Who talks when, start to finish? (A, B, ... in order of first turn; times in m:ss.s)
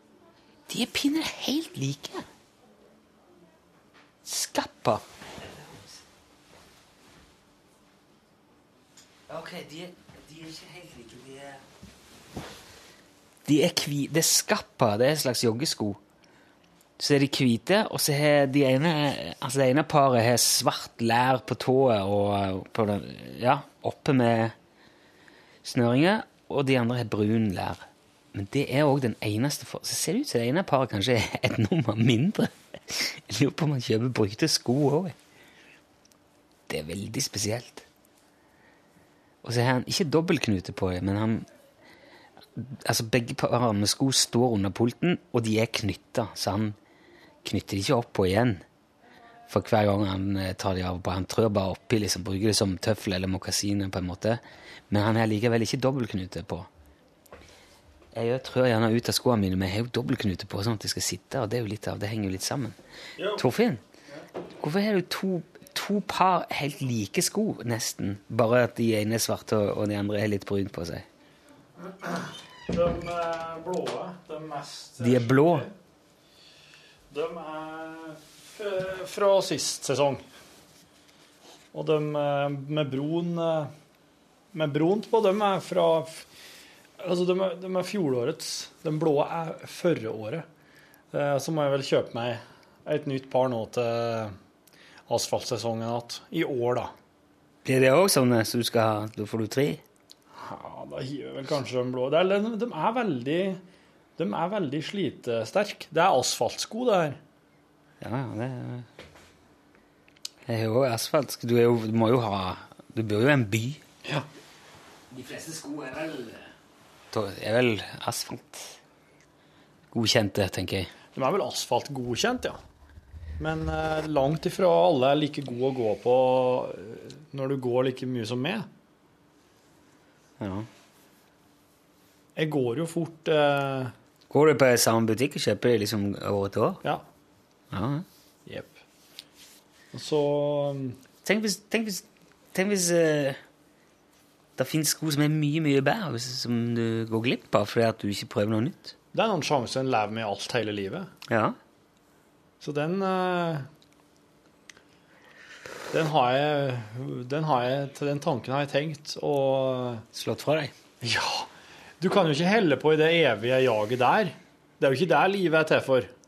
0:00.7-0:02.2 A
0:04.2-0:06.0 A
0:09.3-0:11.6 A
0:13.4-0:16.0 A
0:17.0-0:24.5 A
0:25.6-0:27.8 A
0:28.3-0:35.1 A
0:36.7-0:37.8 A
0:39.4-0:41.4 A
0:42.6-0:46.8 A
0:47.4-0:48.6 A
0:49.5-0:56.7 A
0:58.1-1:02.7 A
1:03.2-1:03.4 B
1:03.4-1:03.8 A
1:04.6-1:11.0 A
1:11.8-1:15.7 B
1:15.0-1:15.7 A
1:17.1-1:20.2 B
1:21.7-1:23.7 B
1:24.5-1:26.2 B
1:27.0-1:30.5 B
1:31.1-1:34.3 B
1:35.1-1:36.9 B
1:37.6-1:39.8 A
1:40.3-1:43.6 B
1:44.2-1:47.2 B
1:48.0-1:48.9 A
1:50.5-1:53.8 A
1:55.1-1:56.5 A
1:57.1-1:58.7 A
1:59.9-2:00.9 A
2:01.1-2:02.6 B
2:03.4-2:08.7 B
2:10.4-2:10.7 A
2:12.4-2:13.9 B
2:14.3-2:16.8 A
2:17.7-2:18.0 A
2:18.5-2:18.8 B
2:19.9-2:21.0 B
2:21.2-2:23.4 A
2:24.6-2:28.9 A
2:29.1-2:31.1 B
2:31.3-2:31.6 A
2:32.6-2:33.7 B
2:35.9-2:40.0 B
2:40.1-2:40.7 A
2:41.0-2:41.5 B
2:42.0-2:46.1 B